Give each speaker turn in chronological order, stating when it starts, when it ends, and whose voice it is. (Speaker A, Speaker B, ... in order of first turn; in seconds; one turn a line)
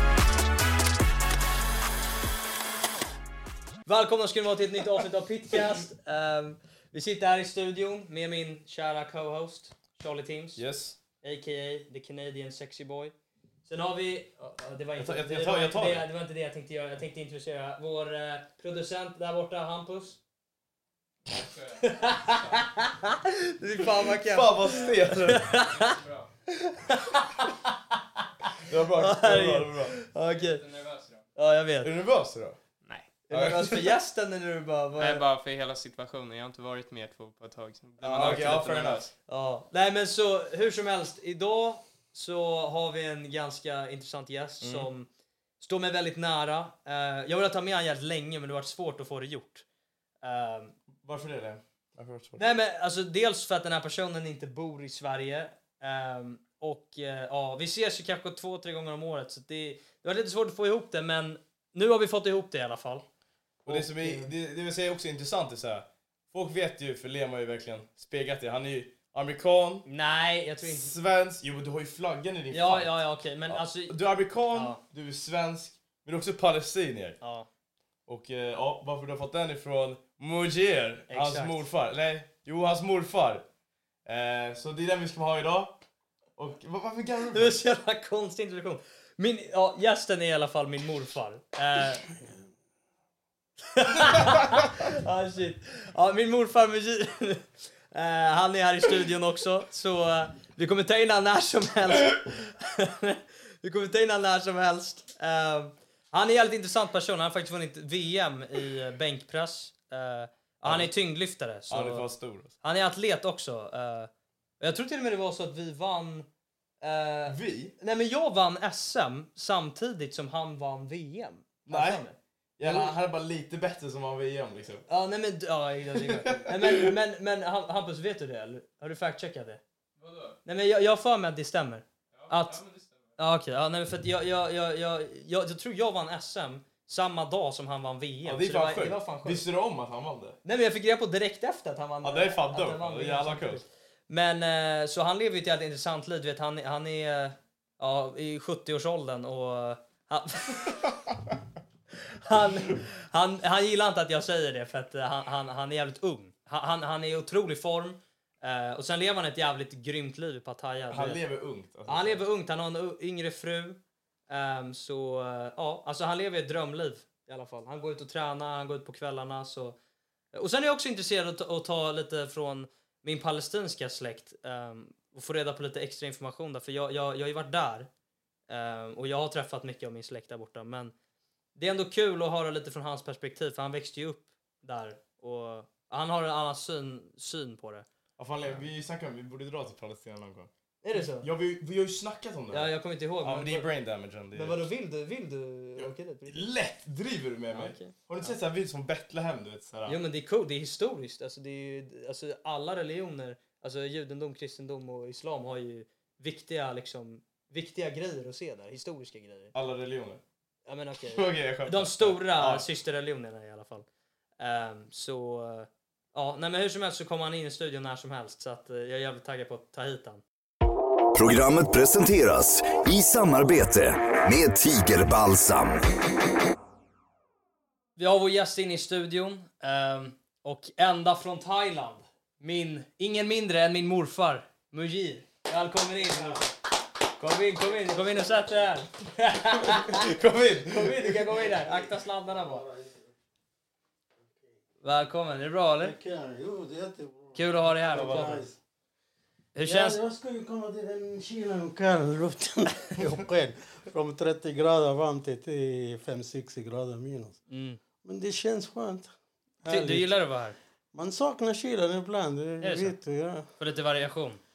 Speaker A: 3.9-10.6
Speaker B: 10.6-11.0
Speaker A: 11.2-13.1
Speaker A: 13.7-20.2
Speaker B: 15.0-16.1
Speaker C: 21.3-22.6
Speaker A: 21.8-26.0
Speaker B: 24.1-25.5
Speaker C: 24.7-26.3
Speaker A: 26.5-30.6
Speaker B: 28.6-30.0
Speaker C: 30.3-31.2
Speaker A: 31.4-31.9
Speaker B: 31.8-32.6
Speaker C: 32.9-33.1
Speaker A: 33.3-35.2
Speaker B: 33.3-34.0
Speaker C: 35.0-39.1
Speaker B: 38.0-39.1
Speaker A: 38.2-38.5
Speaker A: 39.3-45.1
Speaker B: 44.6-44.9
Speaker A: 45.6-49.6
Speaker A: 50.2-50.7
Speaker B: 51.0-52.4
Speaker A: 52.4-63.1
Speaker A: 63.7-64.3
Speaker B: 63.7-69.9
Speaker A: 69.9-70.9
Speaker B: 70.6-73.0
Speaker A: 72.5-74.0
Speaker B: 73.5-77.2
Speaker A: 74.5-74.8
Speaker A: 77.2-77.5
Speaker B: 78.1-83.5
Speaker A: 81.1-81.7
Speaker B: 84.1-85.8
Speaker B: 86.4-87.6
Speaker A: 87.3-92.1
Speaker A: 93.7-112.1
Speaker B: 110.6-110.9
Speaker B: 111.7-112.5
Speaker A: 112.6-116.3
Speaker A: 116.8-122.9
Speaker B: 117.3-117.8
Speaker B: 121.7-122.0
Speaker B: 122.6-124.9
Speaker A: 124.9-129.6
Speaker B: 126.0-126.9
Speaker C: 130.0-130.3
Speaker A: 130.4-132.6
Speaker C: 132.2-133.1
Speaker A: 133.2-139.4
Speaker B: 138.3-140.4
Speaker A: 140.4-150.9
Speaker B: 142.0-143.6
Speaker A: 152.1-161.2
Speaker B: 160.9-162.2
Speaker A: 161.9-169.8
Speaker A: 170.3-177.9
Speaker A: 178.5-180.9
Speaker A: 181.6-187.9
Speaker B: 188.2-194.7
Speaker A: 190.8-191.3
Speaker A: 192.5-193.7
Speaker A: 194.3-196.4
Speaker B: 195.8-200.0
Speaker A: 197.5-198.3
Speaker A: 199.9-209.5
Speaker B: 209.5-210.2
Speaker A: 210.7-213.9
Speaker B: 211.1-212.7
Speaker A: 214.4-220.2
Speaker D: 221.2-225.8
Speaker A: 228.0-236.5
Speaker A: 237.2-240.1
Speaker B: 239.6-241.4
Speaker A: 240.7-242.7
Speaker E: 242.3-243.1
Speaker A: 244.8-246.0
Speaker E: 245.8-248.6
Speaker A: 247.3-248.4
Speaker B: 247.9-248.4
Speaker A: 249.6-250.0
Speaker E: 249.6-257.4
Speaker A: 257.5-257.8
Speaker E: 258.0-259.1
Speaker E: 259.6-260.1
Speaker A: 259.6-260.6
Speaker E: 260.9-263.5
Speaker A: 262.6-263.0
Speaker A: 263.6-264.4